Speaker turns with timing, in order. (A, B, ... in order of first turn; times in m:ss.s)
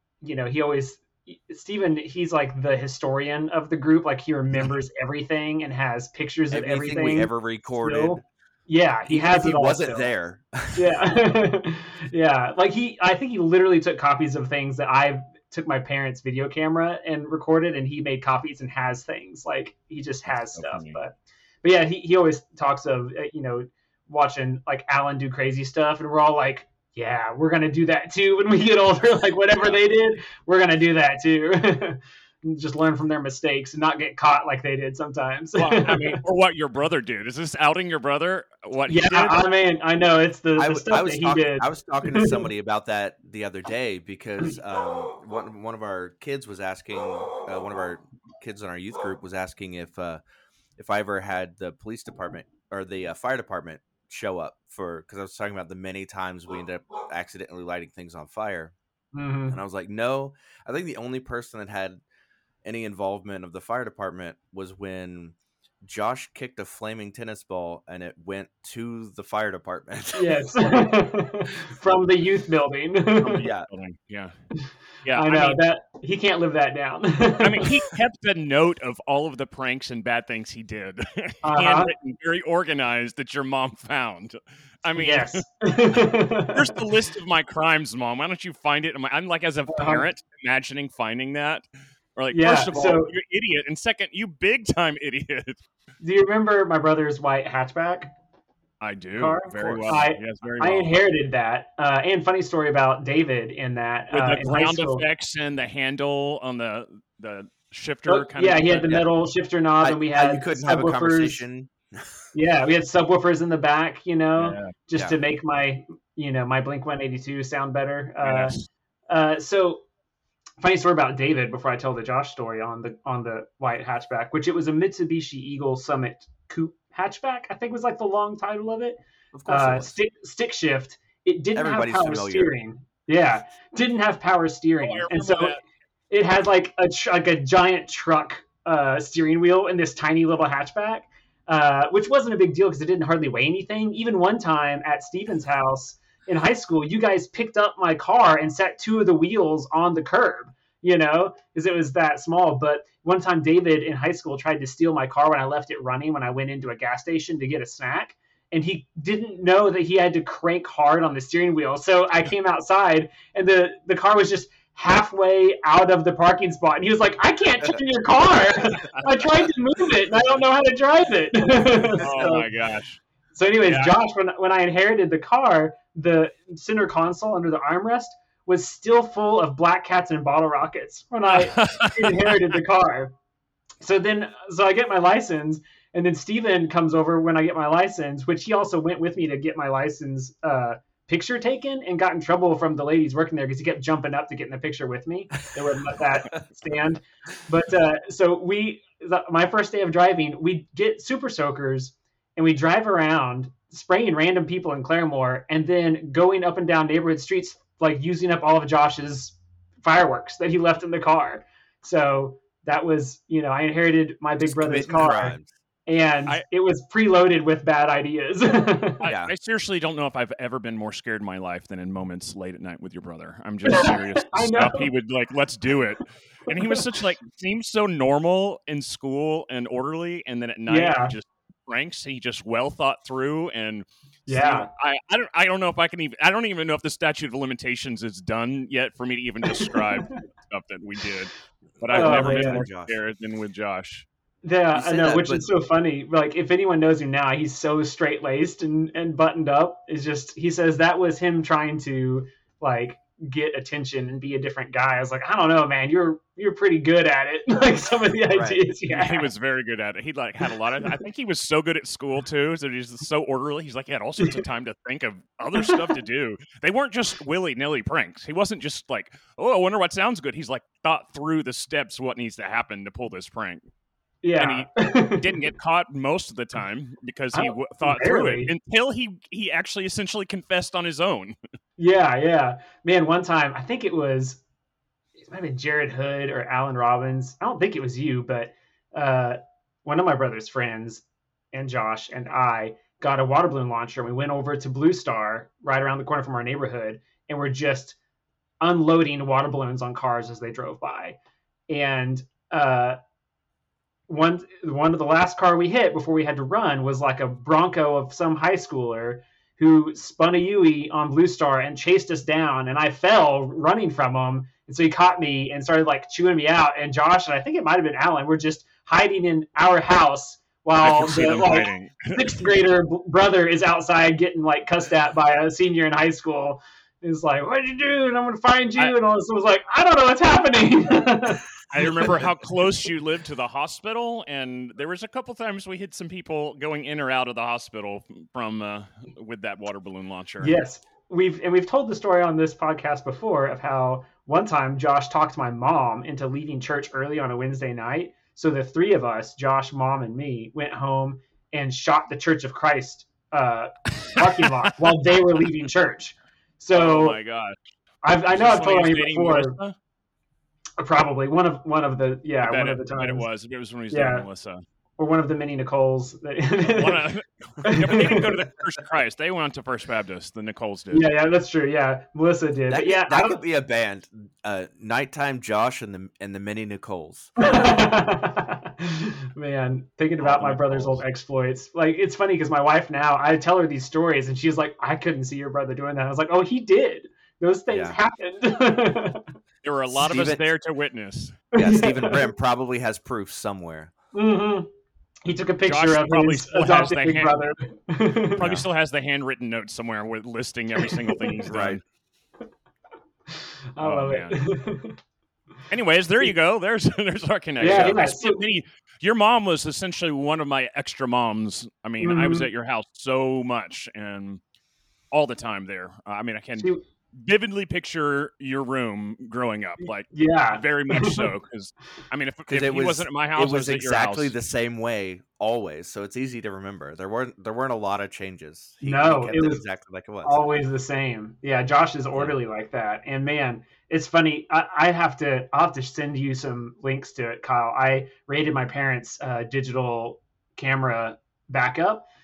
0:00.2-0:10.1 A
0:06.5-0:08.2 B
0:09.1-0:11.0 B
0:10.8-0:36.2 A
0:20.3-0:21.0 C
0:35.6-0:39.5 C
0:38.9-0:42.4 A
0:40.6-0:50.2 B
0:50.8-0:58.8 B
0:59.1-0:59.6 A
0:59.5-1:02.0 B
1:02.6-1:10.9 B
1:10.1-1:13.5 A
1:13.2-1:14.3 C
1:13.4-1:13.7 B
1:14.6-1:17.6 A
1:15.0-1:15.6 C
1:17.4-1:25.4 C
1:21.4-1:21.9 A
1:25.0-1:26.8 A
1:26.5-1:31.6 C
1:29.7-1:30.1 A
1:32.2-1:35.6 C
1:32.3-1:33.1 A
1:36.0-1:38.1 A
1:38.8-1:41.0 C
1:39.2-1:45.0 A
1:39.6-1:40.0 B
1:44.1-1:49.0 C
1:48.1-1:51.4 A
1:49.8-1:52.1 B
1:52.3-1:58.5 A
1:54.4-1:54.7 C
1:58.2-1:58.6 C
1:59.1-1:59.8 A
2:00.6-2:15.6 A
2:09.3-2:09.9 B
2:11.5-2:12.5 B
2:14.8-2:15.6 C
2:16.1-2:52.5 A
2:48.6-2:49.5 C
2:52.0-2:53.0 C
2:53.3-3:03.1 A
2:53.6-2:53.9 C
3:01.3-3:02.4 C
3:03.8-3:39.1 A
3:34.4-3:35.5 B
3:39.0-4:04.1 C
3:39.0-3:39.3 B
3:43.6-3:44.9 A
3:50.7-3:51.1 A
3:54.3-3:54.7 A
3:59.5-4:00.1 A
4:01.8-4:03.0 B
4:01.9-4:02.7 A
4:04.4-4:19.3 A
4:04.7-4:05.5 B
4:18.3-4:18.6 B
4:18.9-4:33.7 C
4:25.6-4:25.9 A
4:34.2-4:35.4 A
4:34.4-4:41.3 C
4:37.3-4:38.5 A
4:41.8-4:44.4 A
4:45.2-4:58.0 A
4:58.6-5:01.2 A
5:01.7-5:03.0 A
5:04.1-5:32.1 A
5:20.8-5:22.5 C
5:31.7-5:40.6 C
5:40.4-5:57.2 A
5:56.7-5:57.6 C
5:58.0-5:59.6 A
5:58.3-5:59.8 C
6:00.8-6:03.3 A
6:02.4-6:04.6 C
6:03.9-6:04.3 A
6:05.0-6:07.0 A
6:06.8-6:11.1 C
6:07.6-6:08.4 A
6:10.9-6:13.4 A
6:12.7-6:17.6 B
6:17.4-6:29.3 A
6:20.2-6:21.0 C
6:27.7-6:28.0 B
6:29.6-6:31.4 C
6:29.9-6:30.4 B
6:31.6-6:33.9 B
6:31.6-6:32.2 A
6:34.1-6:34.7 A
6:35.2-6:38.4 A
6:35.7-6:37.4 C
6:38.3-6:41.8 C
6:38.4-6:38.7 B
6:40.9-6:41.3 A
6:41.5-6:41.8 B
6:43.3-6:45.0 A
6:43.8-6:44.4 C
6:45.7-6:54.4 C
6:47.6-6:48.4 A
6:52.0-6:52.5 A
6:55.1-7:04.3 C
6:56.6-6:56.8 A
7:00.1-7:01.3 A
7:02.5-7:10.4 B
7:08.8-7:09.6 A
7:10.2-7:22.0 A